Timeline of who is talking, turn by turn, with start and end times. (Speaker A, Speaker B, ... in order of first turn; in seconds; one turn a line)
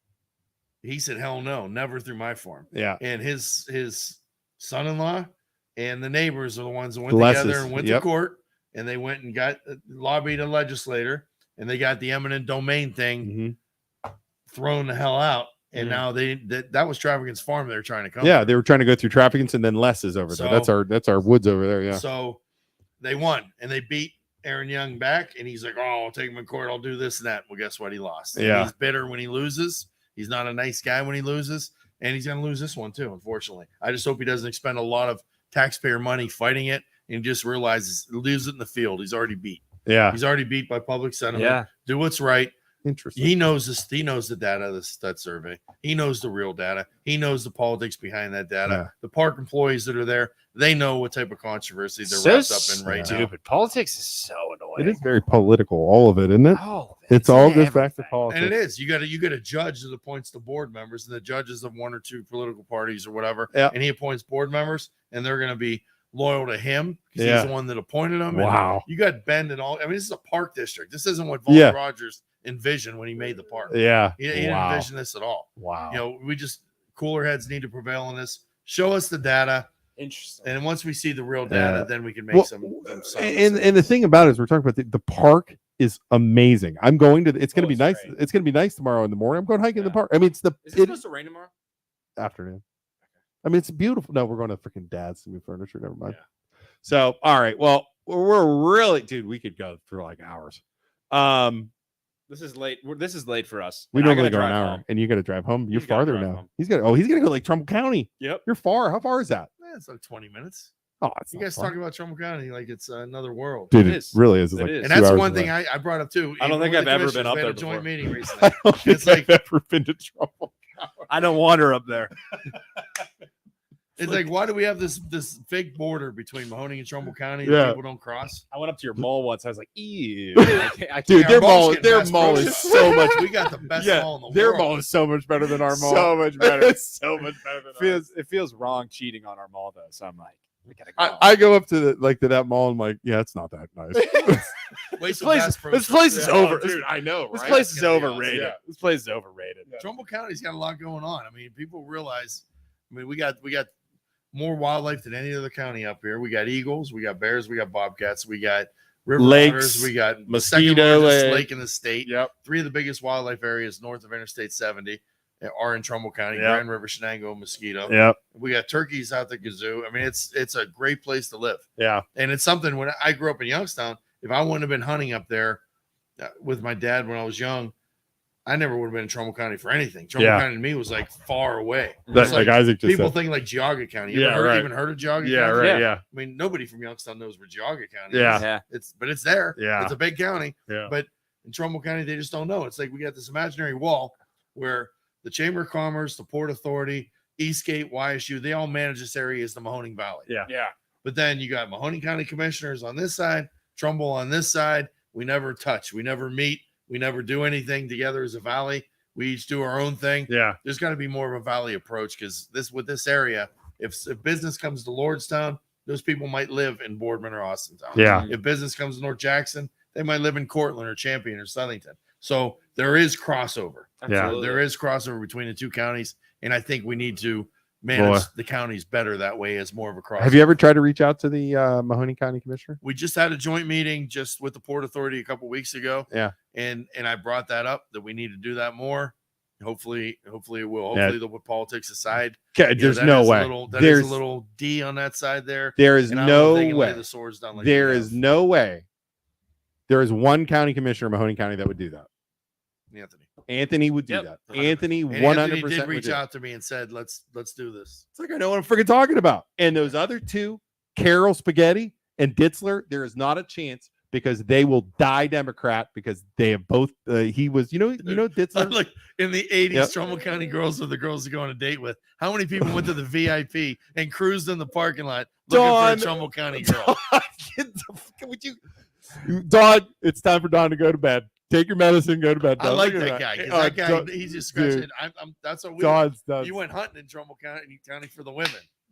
Speaker A: 0.8-13.3
Speaker B: 2.7-3.0
Speaker B: 7.1-8.1
Speaker B: 13.2-13.6
Speaker A: 14.5-18.5
Speaker B: 15.8-16.0
Speaker B: 18.2-22.0
Speaker A: 20.3-20.7
Speaker A: 21.9-22.4
Speaker A: 23.0-42.5
Speaker B: 28.4-28.7
Speaker B: 39.9-40.2
Speaker C: 41.3-41.7
Speaker B: 42.9-43.4
Speaker A: 43.2-53.3
Speaker C: 52.0-55.0
Speaker B: 52.9-53.3
Speaker B: 54.8-58.5
Speaker C: 56.5-58.2
Speaker A: 58.3-79.7
Speaker B: 67.2-67.5
Speaker B: 68.3-68.8
Speaker B: 71.5-71.8
Speaker B: 73.7-74.9
Speaker B: 75.6-76.0
Speaker C: 80.0-80.5
Speaker A: 80.4-83.9
Speaker B: 81.5-91.0
Speaker C: 87.5-88.1
Speaker C: 89.7-90.0
Speaker C: 90.6-91.5
Speaker B: 92.2-92.6
Speaker B: 93.4-96.2
Speaker B: 96.8-101.7
Speaker C: 102.3-104.8
Speaker B: 103.9-109.5
Speaker C: 105.7-106.5
Speaker C: 108.2-108.5
Speaker A: 109.6-110.7
Speaker B: 111.0-111.7
Speaker A: 111.3-113.7
Speaker B: 113.7-115.5
Speaker C: 113.7-114.9
Speaker A: 114.8-119.3
Speaker C: 116.4-117.9
Speaker B: 118.4-120.9
Speaker C: 121.1-122.2
Speaker A: 124.0-128.4
Speaker B: 124.0-124.3
Speaker B: 127.4-127.8
Speaker C: 128.5-133.0
Speaker B: 130.3-138.0
Speaker A: 131.1-134.7
Speaker C: 133.8-134.1
Speaker C: 135.5-141.5
Speaker B: 141.0-144.5
Speaker C: 143.9-144.5
Speaker A: 144.9-146.6
Speaker C: 145.0-149.8
Speaker B: 146.1-147.6
Speaker A: 147.3-148.5
Speaker B: 148.3-148.6
Speaker A: 149.8-153.7
Speaker A: 154.3-175.6
Speaker B: 159.2-161.5
Speaker B: 162.0-162.3
Speaker B: 166.3-166.6
Speaker B: 167.9-168.2
Speaker B: 171.8-172.0
Speaker A: 176.2-177.7
Speaker A: 178.5-200.4
Speaker B: 180.2-180.5
Speaker C: 182.1-182.4
Speaker B: 182.1-183.2
Speaker B: 184.1-186.0
Speaker C: 185.6-185.9
Speaker B: 188.1-188.5
Speaker C: 188.3-188.6
Speaker B: 189.6-190.0
Speaker C: 200.5-200.7
Speaker A: 201.0-230.5
Speaker B: 210.3-210.6
Speaker B: 217.9-218.3
Speaker C: 218.0-218.3
Speaker C: 224.0-224.7
Speaker B: 224.1-224.4
Speaker B: 227.9-228.3
Speaker B: 230.2-232.8
Speaker A: 232.8-248.2
Speaker B: 236.1-236.3
Speaker B: 242.6-244.2
Speaker B: 245.8-247.0
Speaker B: 247.6-248.8
Speaker B: 249.9-252.1
Speaker A: 252.9-253.3
Speaker B: 253.5-256.2
Speaker C: 254.1-254.8
Speaker A: 255.1-258.0
Speaker B: 258.1-268.8
Speaker A: 268.0-276.9
Speaker B: 275.5-278.6
Speaker B: 279.1-284.9
Speaker A: 282.6-288.7
Speaker B: 285.8-286.6